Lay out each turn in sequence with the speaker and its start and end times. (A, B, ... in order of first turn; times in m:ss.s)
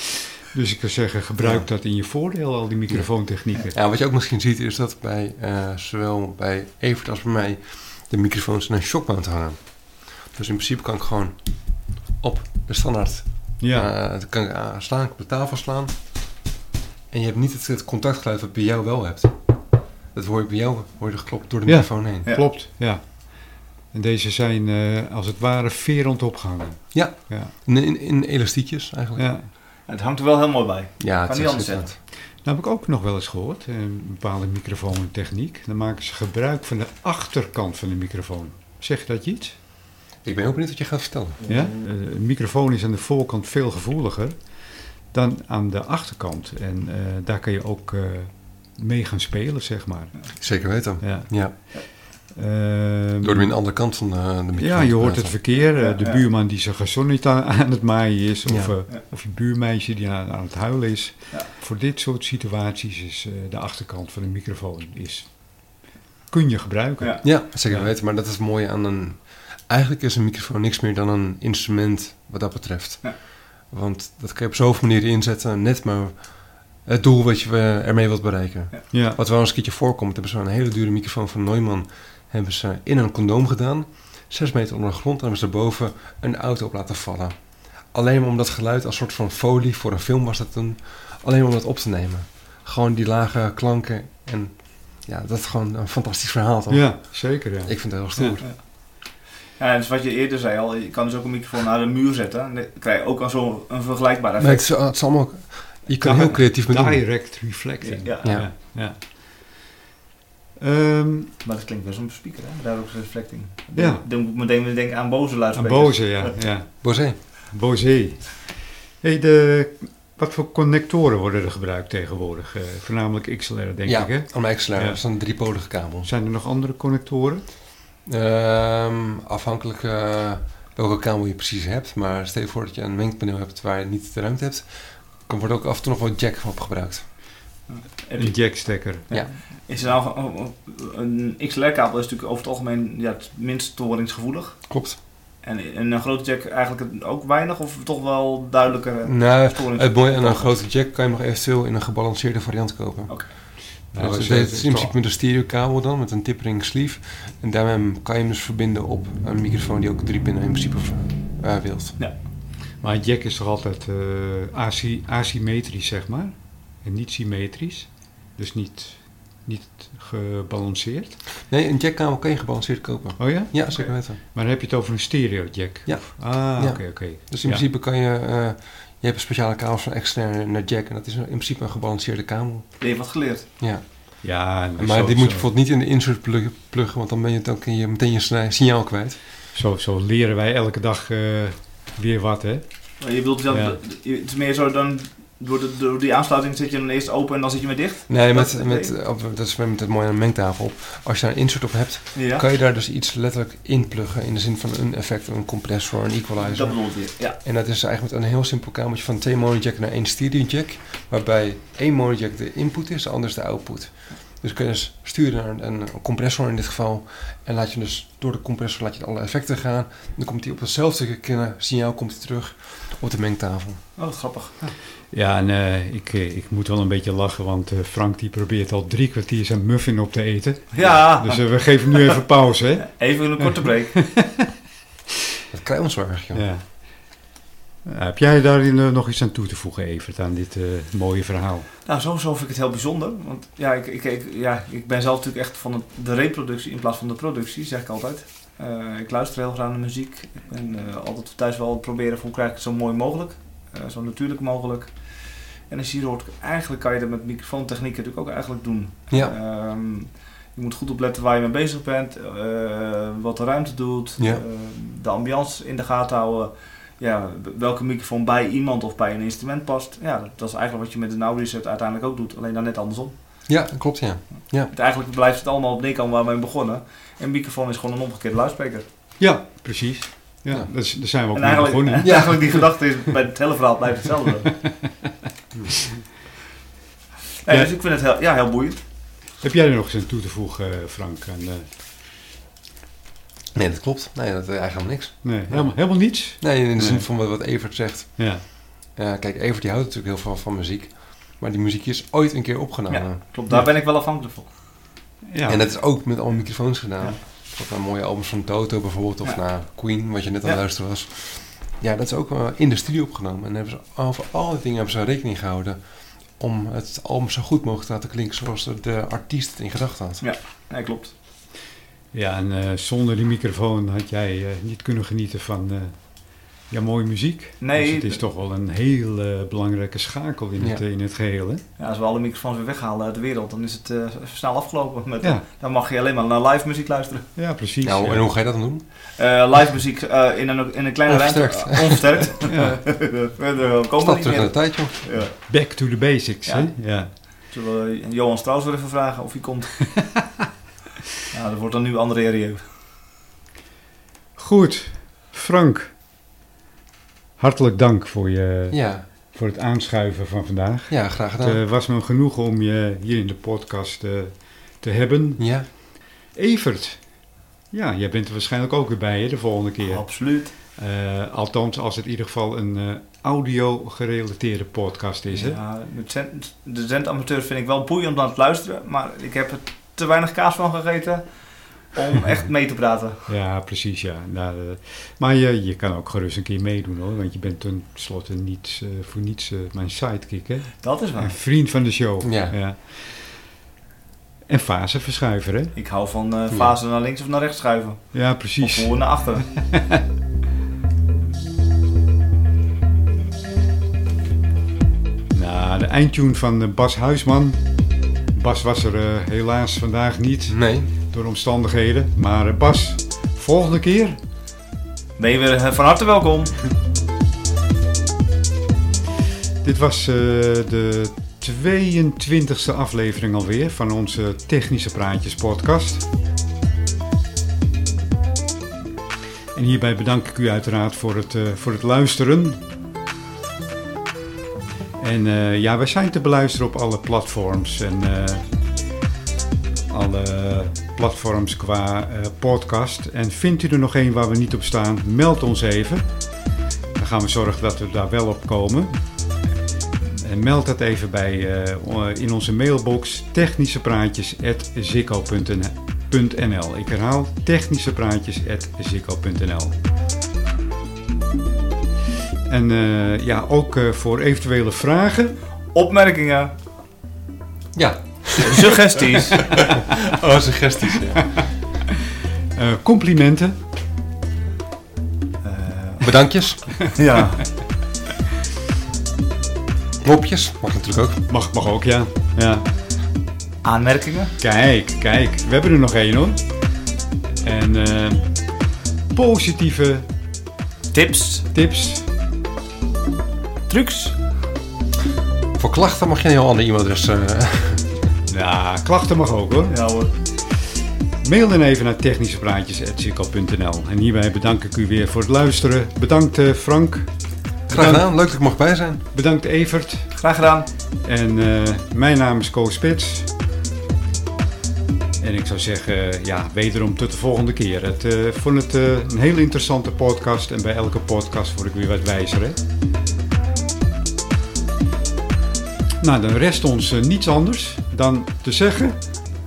0:00.5-0:03.7 A
0:01.4-0:01.7 B
0:02.9-0:03.1 B
0:03.7-0:11.4 B
0:12.2-0:15.9 B
0:13.6-0:13.9 A
0:17.1-0:19.4 B
0:20.1-0:22.3 B
0:21.6-0:27.5 A
0:26.9-0:29.3 B
0:29.2-0:29.5 A
0:29.9-0:31.9 C
0:31.0-0:32.0 B
0:32.4-0:39.6 A
0:40.2-0:41.4 B
0:41.4-0:50.3 A
0:50.4-0:51.6 B
0:51.0-0:53.5 A
0:53.2-0:55.4 B
0:54.6-1:07.9 A
0:55.6-0:56.2 C
0:58.4-0:58.7 B
1:07.2-1:27.3 B
1:18.9-1:19.2 A
1:27.9-1:38.4 B
1:36.7-1:38.4 A
1:38.4-1:44.7 C
1:44.4-1:47.1 B
1:46.0-1:49.6 A
1:47.8-1:48.4 C
1:48.2-1:48.5 B
1:50.6-1:51.3 A
1:51.4-1:56.4 C
1:53.7-1:54.0 A
1:55.5-1:56.8 A
1:56.8-1:57.2 B
1:57.5-2:05.0 A
2:03.8-2:06.1 B
2:06.0-2:07.5 A
2:08.0-2:17.0 B
2:17.7-2:24.6 C
2:18.2-2:19.1 A
2:24.7-2:25.0 B
2:25.4-2:30.5 C
2:29.0-2:42.0 B
2:33.9-2:35.0 A
2:42.8-2:51.2 A
2:51.4-2:54.2 B
2:53.2-2:57.6 A
2:55.8-3:02.7 B
3:02.8-3:03.5 C
3:03.6-3:03.8 B
3:04.2-3:05.5 A
3:04.8-3:09.2 B
3:09.5-3:12.7 A
3:13.0-3:18.9 C
3:13.5-3:13.8 A
3:18.1-3:43.8 B
3:22.1-3:22.4 C
3:26.4-3:27.4 C
3:44.0-3:44.7 C
3:45.1-3:54.5 A
3:50.7-3:52.2 C
3:52.8-3:54.0 C
3:55.5-3:56.4 B
3:56.3-3:57.2 A
3:57.8-4:01.7 A
4:01.8-4:33.2 C
4:33.5-4:34.7 B
4:34.7-4:38.8 C
4:39.2-4:42.6 A
4:41.3-4:44.6 C
4:42.0-4:42.4 B
4:44.6-4:45.1 A
4:47.4-4:48.8 C
4:47.5-4:47.7 A
4:49.4-4:51.7 A
4:53.5-4:55.7 B
4:55.2-4:57.1 A
4:56.4-5:03.2 B
4:58.2-4:58.4 A
5:02.9-5:04.5 C
5:05.3-5:05.6 A
5:05.5-5:20.2 B
5:20.2-5:21.1 C
5:22.1-5:31.6 A
5:27.6-5:28.2 C
5:31.8-5:37.3 C
5:37.4-5:38.3 A
5:37.8-5:38.8 B
5:39.2-5:45.5 C
5:41.1-5:42.2 B
5:42.4-5:42.8 A
5:44.0-5:44.9 B
5:45.2-5:47.1 A
5:46.4-5:50.1 C
5:51.3-5:52.6 C
5:54.4-5:56.0 A
5:57.4-6:05.8 A
5:58.7-5:59.0 B
6:00.9-6:01.6 B
6:05.4-6:05.7 B
6:06.3-6:15.6 A
6:09.8-6:10.5 C
6:15.3-6:21.3 C
6:21.9-6:23.3 C
6:23.3-6:33.5 A
6:30.8-6:31.4 C
6:32.2-6:32.6 B
6:34.5-6:35.7 A
6:35.7-6:39.6 C
6:36.5-6:36.8 B
6:38.1-6:40.0 A
6:45.3-6:47.6 A
6:48.3-6:54.2 A
6:50.5-6:50.9 B
6:55.2-6:56.5 C
6:59.6-7:06.0 A
7:09.5-7:12.6 A
7:15.0-7:18.4 A
7:19.9-7:26.1 A
7:26.9-7:29.0 A
7:30.2-7:39.7 A
7:42.5-7:45.4 A
7:45.7-7:46.5 C
7:47.7-7:51.5 B
7:48.4-7:49.9 C
7:52.5-7:53.6 A
7:55.4-7:56.1 C
7:56.0-7:56.8 B
7:56.8-7:57.5 C
8:00.0-8:01.2 B
8:01.3-8:02.6 A
8:03.6-8:04.3 C
8:04.4-8:06.4 A
8:07.4-8:08.3 A
8:09.1-8:10.1 A
8:10.9-8:11.5 C
8:11.5-8:12.1 A
8:13.7-8:14.2 C
8:15.6-8:17.9 B
8:18.3-8:19.8 A
8:19.7-8:20.1 C
8:20.4-8:27.1 A
8:27.7-8:28.1 A
8:27.7-8:29.0 B
8:29.1-8:30.2 A
8:30.2-8:30.7 C
8:31.0-8:33.3 A
8:35.2-8:42.6 A
8:46.0-8:49.3 A